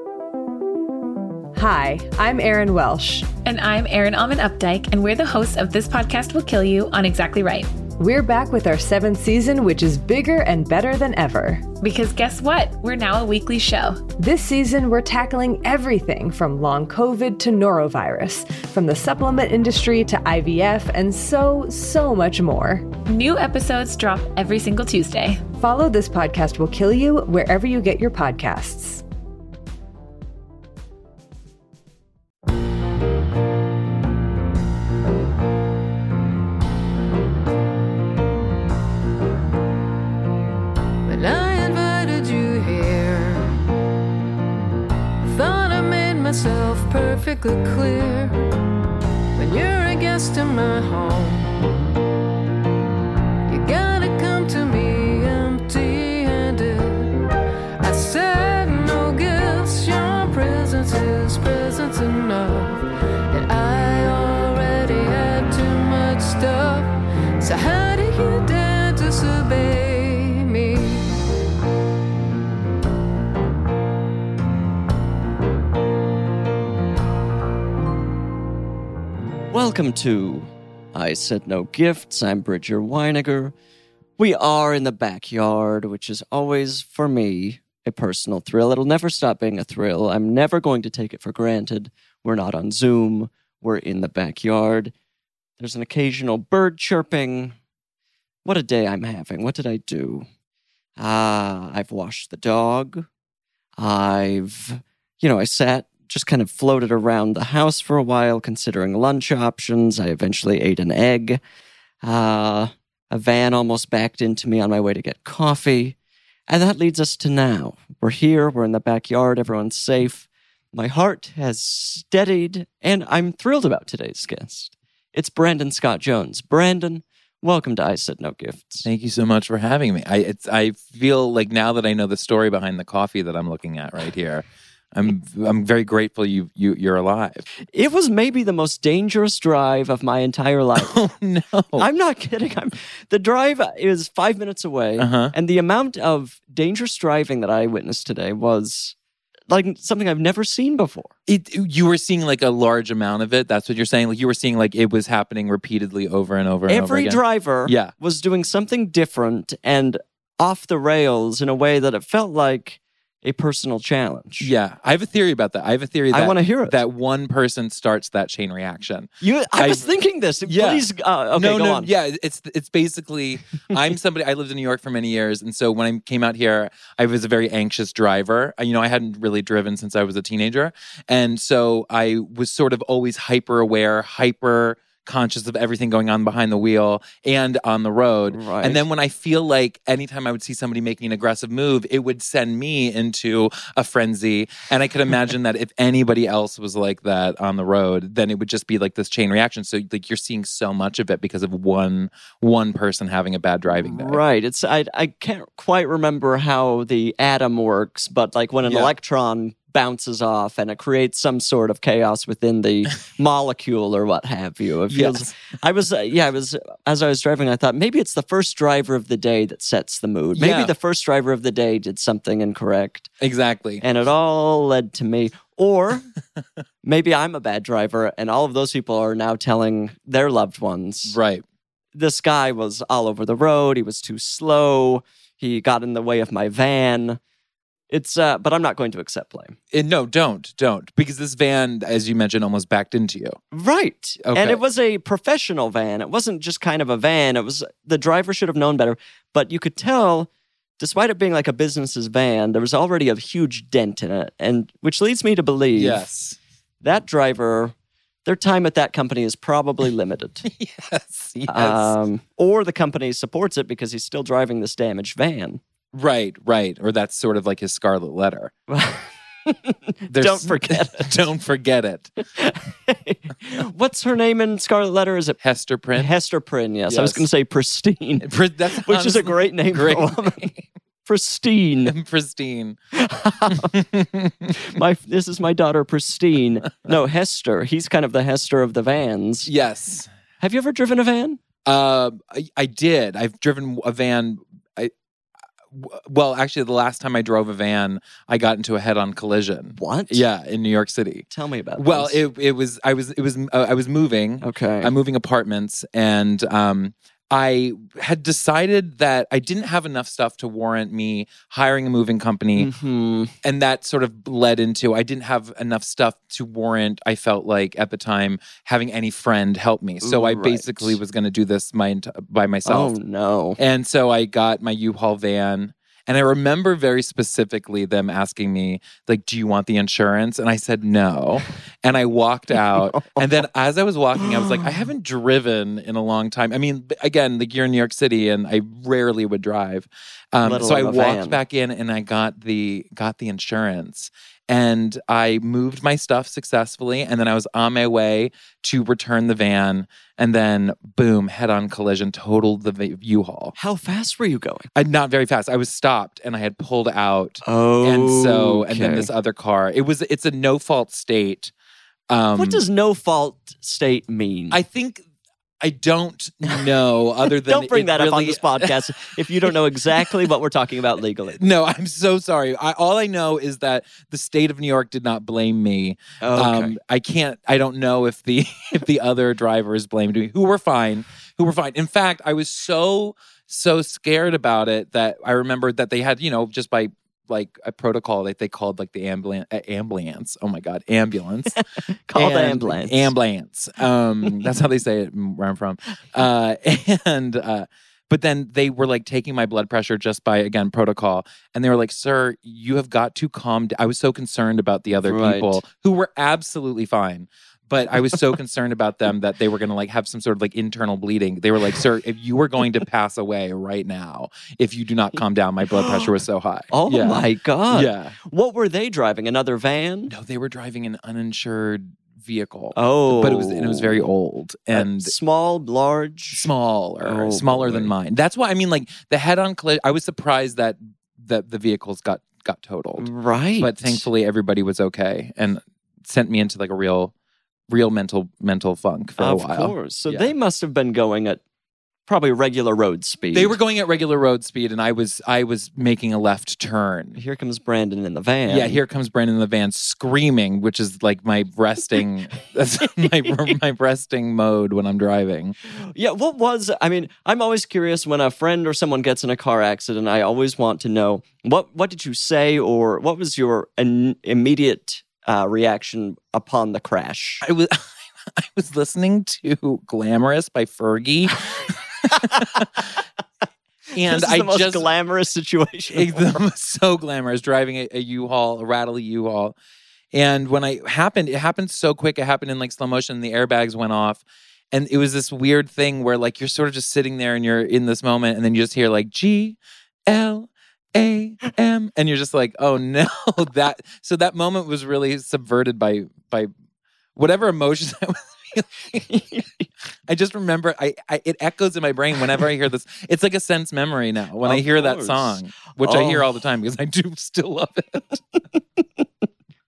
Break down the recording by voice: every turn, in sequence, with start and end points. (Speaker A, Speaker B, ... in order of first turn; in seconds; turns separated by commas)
Speaker A: 1.6-3.3, Speaker B: 3.5-7.7, Speaker A: 8.0-11.7, Speaker B: 11.8-14.1, Speaker A: 14.2-22.9, Speaker B: 23.1-25.4, Speaker A: 25.6-29.0, Speaker C: 41.1-43.5, Speaker C: 45.2-48.4, Speaker C: 49.4-51.6, Speaker C: 53.5-57.1, Speaker C: 57.8-71.2, Speaker D: 79.5-83.5, Speaker D: 84.2-94.9, Speaker D: 95.6-97.6, Speaker D: 98.4-100.3, Speaker D: 101.0-103.1, Speaker D: 103.8-111.4, Speaker D: 112.0-116.0, Speaker D: 116.5-128.9, Speaker E: 128.8-137.5, Speaker D: 137.7-140.9, Speaker E: 140.8-141.9, Speaker D: 141.8-148.9, Speaker E: 145.0-145.3, Speaker D: 149.5-151.1, Speaker E: 151.3-157.9, Speaker D: 156.7-164.5, Speaker E: 164.4-169.9, Speaker D: 166.1-166.8, Speaker D: 169.2-171.9, Speaker E: 170.5-204.2, Speaker D: 188.3-188.8, Speaker D: 203.7-223.1, Speaker E: 208.7-208.9, Speaker E: 214.9-215.3, Speaker E: 220.3-220.7, Speaker E: 223.2-223.8, Speaker D: 223.8-226.1, Speaker D: 226.8-231.2, Speaker E: 231.1-231.4, Speaker D: 231.9-237.2, Speaker D: 237.9-239.6, Speaker E: 239.7-243.4, Speaker D: 243.5-256.1, Speaker E: 244.2-244.6, Speaker E: 255.8-256.4, Speaker D: 256.8-257.7, Speaker D: 258.2-260.5, Speaker E: 260.5-261.9, Speaker D: 261.5-265.6, Speaker E: 265.9-268.5, Speaker D: 268.7-271.2, Speaker E: 270.1-272.2, Speaker D: 272.3-275.4, Speaker E: 275.4-276.1, Speaker D: 275.9-280.5, Speaker E: 276.9-277.3, Speaker E: 278.2-280.6, Speaker D: 281.1-281.9, Speaker E: 281.9-282.8, Speaker D: 282.9-283.8, Speaker E: 283.7-284.5, Speaker D: 284.5-289.5, Speaker E: 289.5-290.1, Speaker D: 290.4-291.4, Speaker E: 291.6-294.9, Speaker E: 295.7-301.2, Speaker D: 299.8-300.2, Speaker D: 301.3-302.2, Speaker E: 301.8-312.7, Speaker D: 304.4-304.9, Speaker D: 312.6-313.3, Speaker E: 313.4-322.9, Speaker D: 320.0-321.0, Speaker D: 322.6-323.6, Speaker E: 323.6-353.6, Speaker D: 332.8-333.2, Speaker D: 334.4-334.7, Speaker D: 340.4-341.4, Speaker D: 353.6-354.7, Speaker E: 354.8-361.5, Speaker D: 357.4-359.1, Speaker E: 362.1-362.6, Speaker D: 362.4-364.6, Speaker E: 364.5-365.0, Speaker E: 365.6-370.3, Speaker D: 367.4-371.4, Speaker E: 371.4-391.6, Speaker D: 376.2-376.8, Speaker D: 392.1-393.1, Speaker E: 392.1-418.1, Speaker D: 405.1-405.6, Speaker D: 415.8-416.1, Speaker D: 416.7-420.1, Speaker E: 420.1-425.1, Speaker D: 422.8-424.1, Speaker D: 424.7-427.9, Speaker E: 426.3-433.1, Speaker D: 433.0-434.1, Speaker E: 433.6-437.1, Speaker E: 437.7-440.3, Speaker D: 439.2-441.4, Speaker D: 442.1-443.6, Speaker E: 443.3-447.2, Speaker D: 447.2-448.8, Speaker E: 448.5-455.6, Speaker D: 455.7-467.4, Speaker E: 467.4-472.9, Speaker E: 473.9-474.9, Speaker D: 474.0-476.4, Speaker E: 475.9-479.6, Speaker E: 480.1-496.5, Speaker E: 497.2-499.1, Speaker D: 499.0-499.7, Speaker E: 500.1-508.2, Speaker D: 504.4-506.3